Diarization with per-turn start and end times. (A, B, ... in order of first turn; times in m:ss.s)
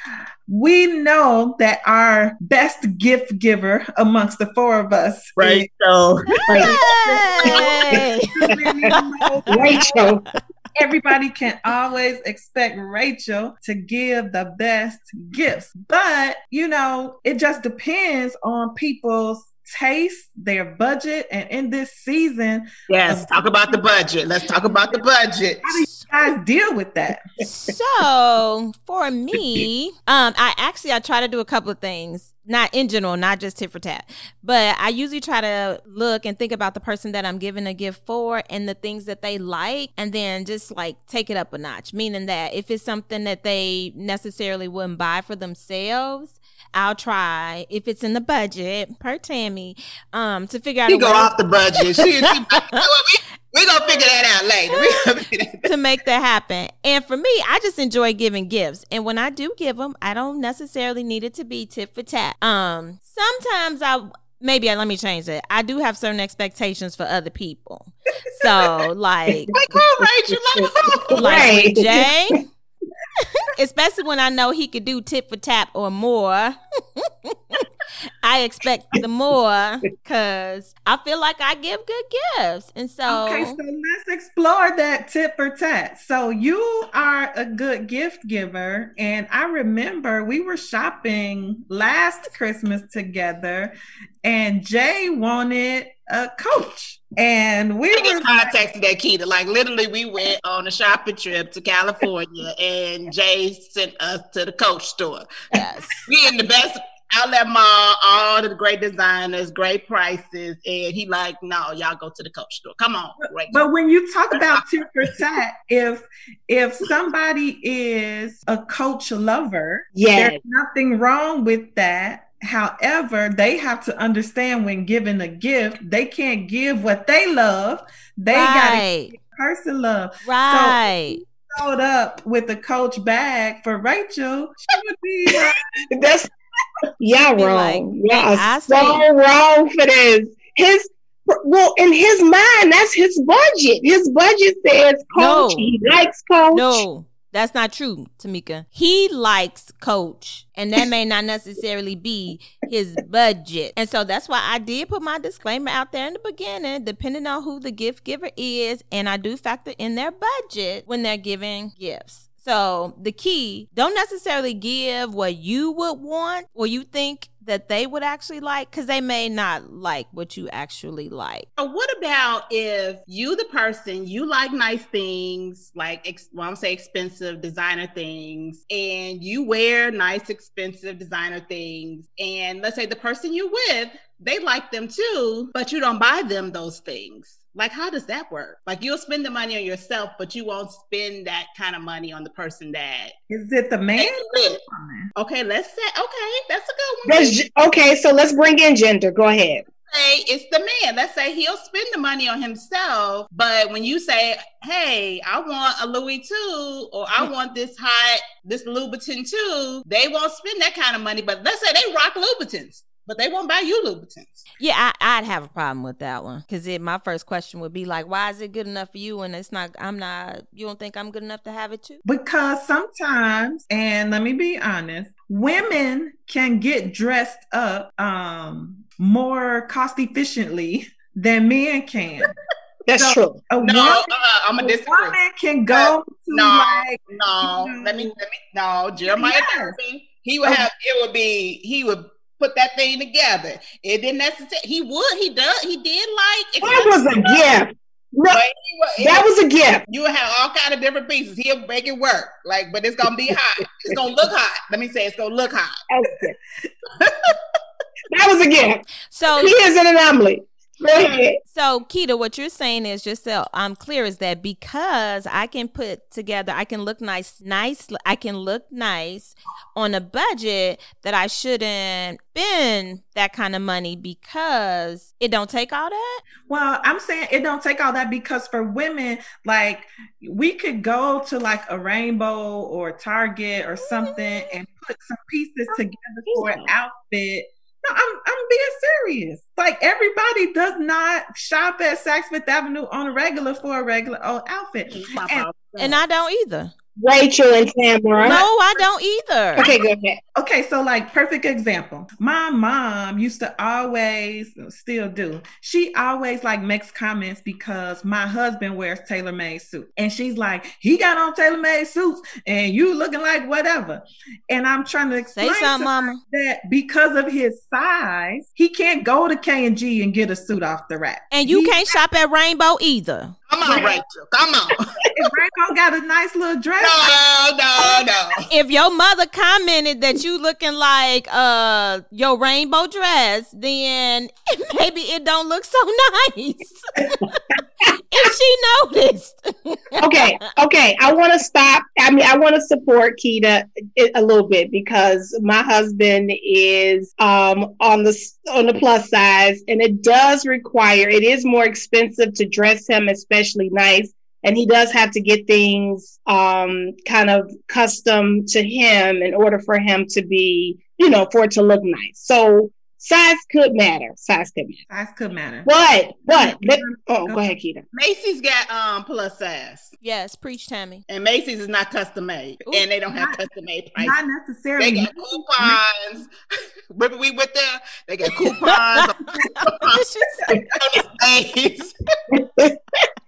0:00.5-0:05.7 A
0:05.4-0:06.7 B
0:06.5-0:06.8 C
0:06.6-0:08.4 D
0:07.0-0:10.0 A
0:07.4-0:08.0 C
0:08.9-0:10.1 D
0:09.5-0:10.2 C
0:10.8-0:25.0 A
0:22.9-0:25.8 B
0:25.6-0:27.2 A
0:27.4-0:51.3 D
0:50.9-0:55.7 B
0:55.6-1:09.5 D
1:09.5-1:12.1 C
1:09.7-1:11.5 B
1:11.1-1:12.4 D
1:13.2-1:17.6 D
1:18.2-1:23.6 D
1:23.1-1:38.5 A
1:37.9-1:45.2 B
1:45.5-1:46.0 D
1:46.1-1:53.6 B
1:53.5-2:15.6 A
1:54.3-1:54.6 B
1:59.9-2:00.4 C
2:08.3-2:09.1 D
2:10.2-2:11.2 D
2:15.9-2:16.3 C
2:17.0-2:26.8 C
2:17.4-2:19.0 D
2:25.1-2:25.7 D
2:26.5-2:51.4 D
2:51.6-3:13.1 B
3:13.3-3:15.1 A
3:14.0-3:14.6 B
3:15.2-3:17.4 B
3:17.0-3:19.6 C
3:19.9-3:34.4 B
3:34.6-3:42.0 D
3:42.0-3:52.3 A
3:52.8-3:53.4 C
3:53.0-3:54.1 A
3:53.6-3:55.2 B
3:54.6-3:58.1 A
3:55.7-4:07.4 B
3:59.0-3:59.8 A
4:06.6-4:08.4 C
4:08.3-4:09.3 B
4:09.0-4:09.8 C
4:09.9-4:15.8 B
4:15.9-4:16.4 C
4:17.0-4:17.3 B
4:18.1-4:21.4 C
4:19.1-4:19.5 D
4:21.5-4:36.2 D
4:36.5-4:55.5 A
4:54.9-4:56.0 B
4:55.8-4:56.7 D
4:57.0-4:58.4 C
4:58.2-4:59.7 D
4:59.6-5:00.2 C
5:00.3-5:21.8 A
5:15.4-5:16.2 D
5:21.3-5:23.4 D
5:23.5-5:24.8 B
5:23.6-5:23.9 A
5:25.1-5:27.2 A
5:26.8-5:28.5 B
5:28.5-5:40.3 D
5:40.0-6:04.8 C
6:04.9-6:05.7 A
6:05.6-6:07.8 C
6:06.3-6:07.4 A
6:07.9-6:09.9 B
6:10.0-6:11.0 D
6:11.1-6:14.2 B
6:14.0-6:15.8 A
6:14.8-6:16.3 B
6:16.9-6:20.0 B
6:18.4-6:20.5 D
6:20.8-6:21.9 B
6:22.3-6:22.8 C